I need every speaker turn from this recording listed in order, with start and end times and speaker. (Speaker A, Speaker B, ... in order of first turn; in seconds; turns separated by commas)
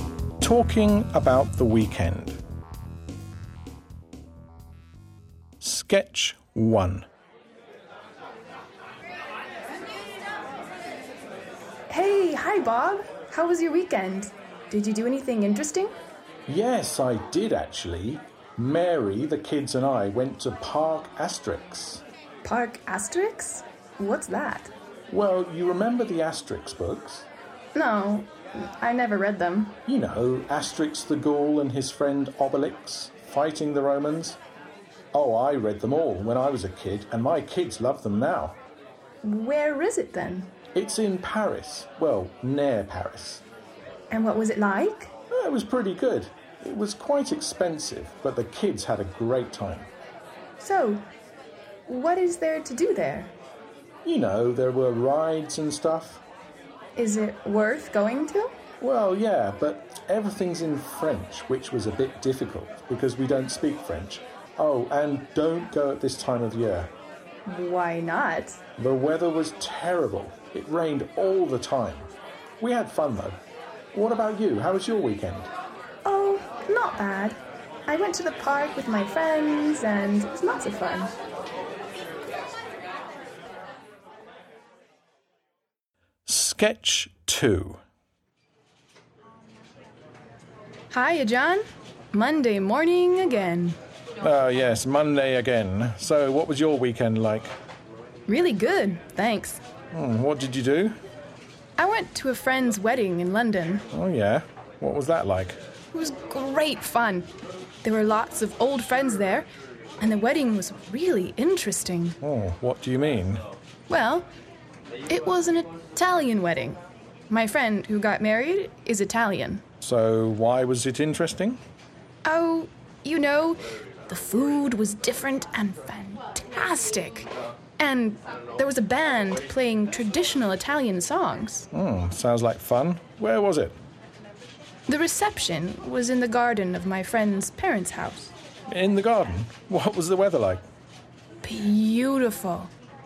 Speaker A: 0.4-2.4, Speaker A: 5.6-7.1, Speaker B: 11.9-15.9, Speaker A: 16.5-22.0, Speaker B: 22.4-24.7, Speaker A: 25.1-27.3, Speaker B: 27.7-29.8, Speaker A: 29.9-34.4, Speaker A: 35.1-38.6, Speaker B: 39.2-40.5, Speaker A: 40.7-43.4, Speaker B: 44.1-45.1, Speaker A: 45.3-49.9, Speaker B: 50.6-51.0, Speaker B: 51.9-53.3, Speaker A: 54.0-56.2, Speaker B: 57.0-58.5, Speaker A: 58.8-66.9, Speaker B: 67.5-68.6, Speaker A: 68.8-73.4, Speaker A: 73.9-75.5, Speaker B: 76.0-81.1, Speaker A: 86.2-87.8, Speaker B: 90.9-93.8, Speaker A: 94.2-97.5, Speaker B: 98.3-99.6, Speaker A: 99.9-101.0, Speaker B: 101.8-103.8, Speaker A: 103.9-105.6, Speaker B: 105.9-107.3, Speaker B: 107.8-109.5, Speaker B: 110.0-112.2, Speaker A: 112.2-113.4, Speaker B: 113.9-114.3, Speaker B: 115.1-119.6, Speaker A: 119.8-121.6, Speaker B: 122.2-131.7, Speaker A: 131.7-133.8, Speaker B: 134.9-138.3, Speaker A: 138.7-140.6, Speaker B: 141.4-142.7